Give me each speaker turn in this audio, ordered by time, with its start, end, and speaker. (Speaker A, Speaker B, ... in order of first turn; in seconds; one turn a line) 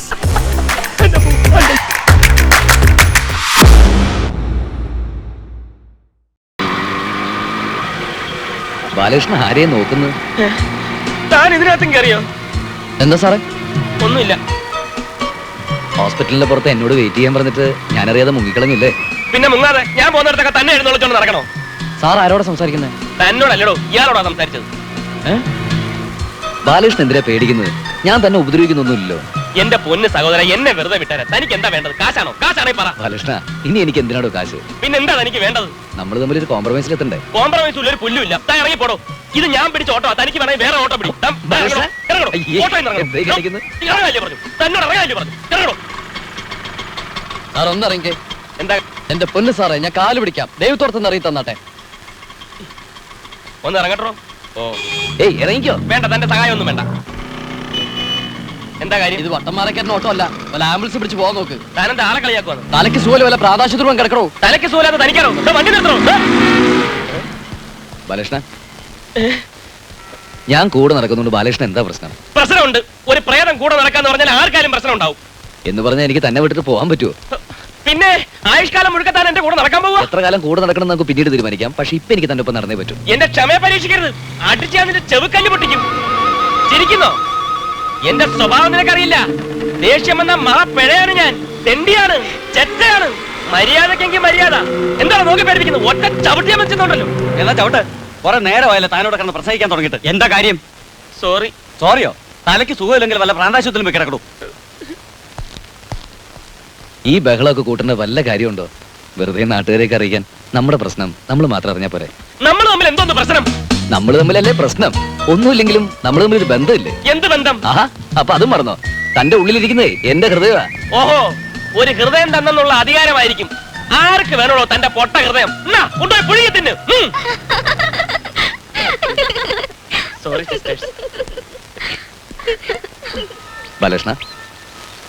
Speaker A: 1.0-1.7
Speaker B: 8.9-10.1
Speaker A: 11.3-12.3
Speaker B: 13.0-13.4
Speaker A: 14.0-14.4
Speaker B: 16.0-18.9
Speaker A: 19.3-21.5
Speaker B: 22.0-22.9
Speaker A: 23.2-24.7
Speaker B: 26.6-29.2
Speaker A: 29.6-32.9
Speaker B: 33.0-34.6
Speaker A: 34.8-35.7
Speaker B: 36.0-37.2
Speaker A: 37.3-45.8
Speaker B: 41.5-43.6
Speaker B: 47.5-48.1
Speaker B: 49.1-51.6
Speaker A: 53.6-54.8
Speaker B: 55.2-55.8
Speaker A: 55.9-56.9
Speaker A: 58.8-59.2
Speaker B: 59.2-61.6
Speaker A: 61.8-62.7
Speaker B: 62.7-64.3
Speaker A: 64.4-66.2
Speaker B: 68.1-68.4
Speaker B: 70.5-72.1
Speaker A: 72.3-75.2
Speaker B: 75.7-77.1
Speaker A: 77.3-80.1
Speaker B: 80.0-83.0
Speaker A: 83.1-85.8
Speaker A: 86.7-87.2
Speaker A: 88.1-89.2
Speaker A: 89.8-97.1
Speaker C: 97.3-100.6
Speaker A: 101.2-101.5
Speaker C: 101.8-104.2
Speaker B: 107.1-112.1
Speaker A: 112.4-113.5
Speaker B: 113.9-117.0
Speaker A: 117.0-117.6
Speaker B: 117.7-120.7
Speaker A: 120.9-127.1
Speaker A: 130.2-130.9
Speaker B: 133.8-134.2